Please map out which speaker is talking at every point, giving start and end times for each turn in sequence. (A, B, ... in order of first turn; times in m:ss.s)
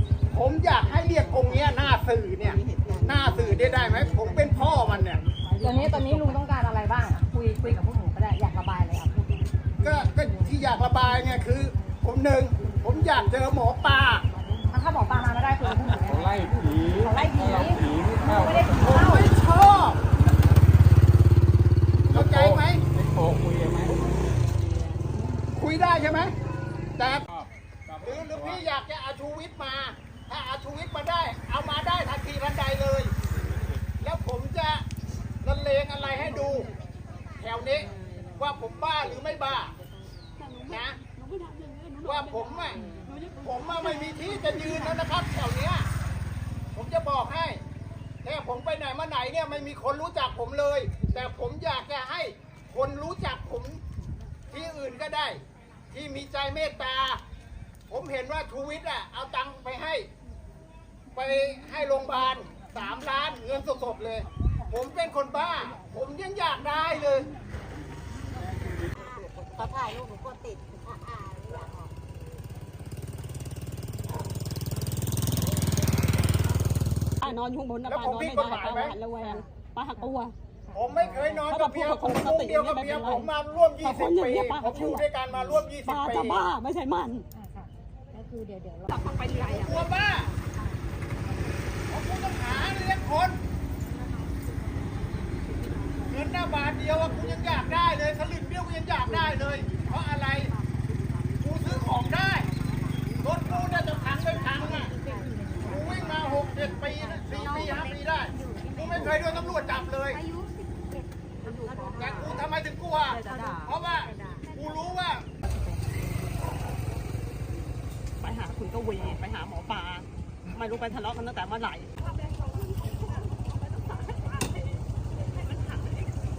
0:00.3-0:05.2 A
0:05.6-0:09.5 B
0:09.8-0:14.2 A
0:14.7-0:19.3 B
0:15.6-0:19.1 C
0:18.8-0:20.0 A
0:22.1-0:23.9 C
0:22.1-0:22.8 A
0:25.5-0:26.3 A
0:27.0-0:27.2 A
0:27.3-0:28.6 C
0:28.0-0:33.1 A
0:34.0-0:34.8 A
0:35.4-0:36.7 A
0:37.4-0:39.7 A
0:40.4-0:45.0 D
0:40.7-0:41.0 A
0:42.0-0:42.8 A
0:43.4-0:45.9 A
0:46.7-0:47.6 A
0:48.2-0:53.8 A
0:54.5-0:57.2 A
0:57.9-1:00.1 A
1:01.1-1:07.3 A
1:08.4-1:08.9 C
1:09.6-1:11.2 E
1:17.2-1:20.3 D
1:17.8-1:19.0 A
1:20.7-1:26.4 A
1:21.3-1:23.3 D
1:23.8-1:27.3 D
1:27.3-1:28.9 B
1:28.9-1:29.9 D
1:29.5-1:30.3 A
1:31.9-1:33.4 A
1:36.1-1:40.5 A
1:41.4-1:42.5 A
1:43.2-1:44.9 A
1:44.9-1:46.1 E
1:45.6-1:50.2 A
1:48.3-1:49.3 E
1:50.2-1:51.0 E
1:51.4-1:52.0 D
1:51.9-1:55.2 A
1:53.2-1:53.6 D
1:58.2-2:06.2 D